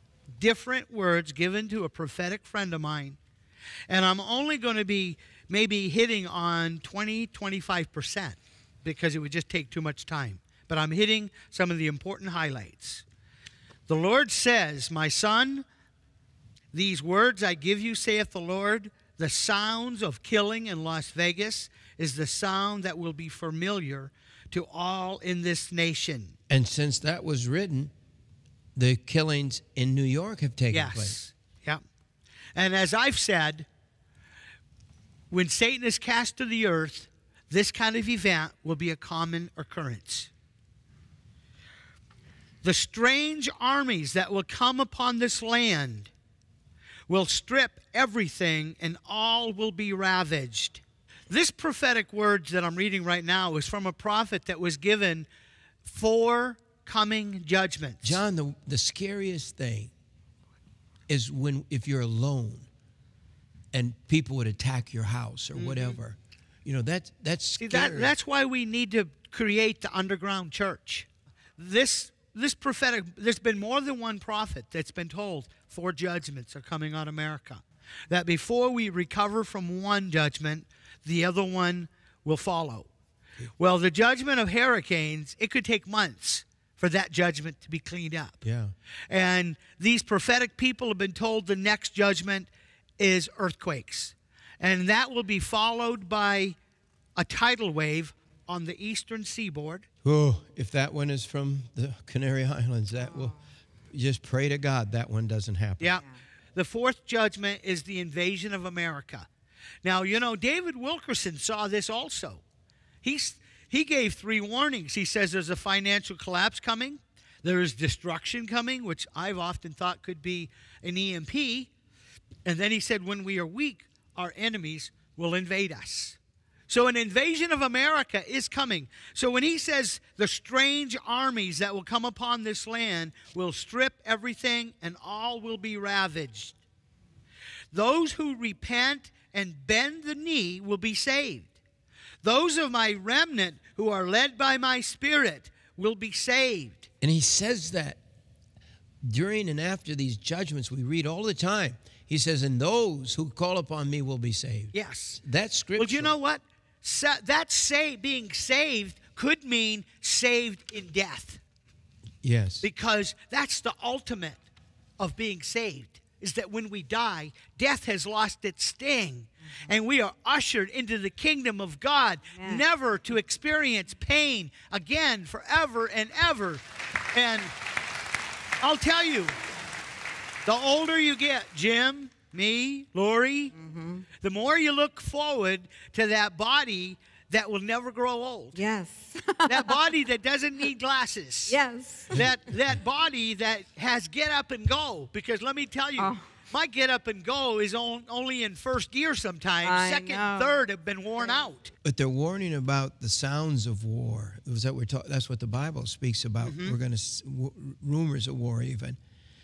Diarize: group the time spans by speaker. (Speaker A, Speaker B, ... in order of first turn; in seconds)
Speaker A: 0.4-3.2, 3.9-13.0, 13.9-15.7, 16.7-26.3, 30.7-31.8, 32.5-33.7, 35.3-40.3, 42.6-46.1, 47.1-55.3, 55.8-58.2, 65.5-66.0, 67.6-71.1, 71.6-82.9, 83.6-88.4, 89.1-96.6, 97.2-99.9, 106.5-109.3, 109.8-112.4, 113.0-121.7, 122.4-136.6, 137.7-141.5, 142.2-146.9, 154.7-155.2, 155.8-161.4, 162.6-164.4, 165.0-177.5, 178.6-179.3, 180.4-183.5, 184.2-188.6, 189.5-191.6, 192.1-201.7, 206.4-206.8
Speaker B: 26.5-27.9, 28.8-31.1, 58.0-59.9, 61.1-62.7, 63.7-68.1, 88.4-88.7, 100.0-103.3, 103.9-106.0, 147.0-148.0, 149.0-156.1, 162.2-162.7, 201.8-209.0
Speaker C: 172.3-172.6, 183.5-184.1, 188.5-189.9, 191.5-192.2, 196.0-196.2, 199.6-200.6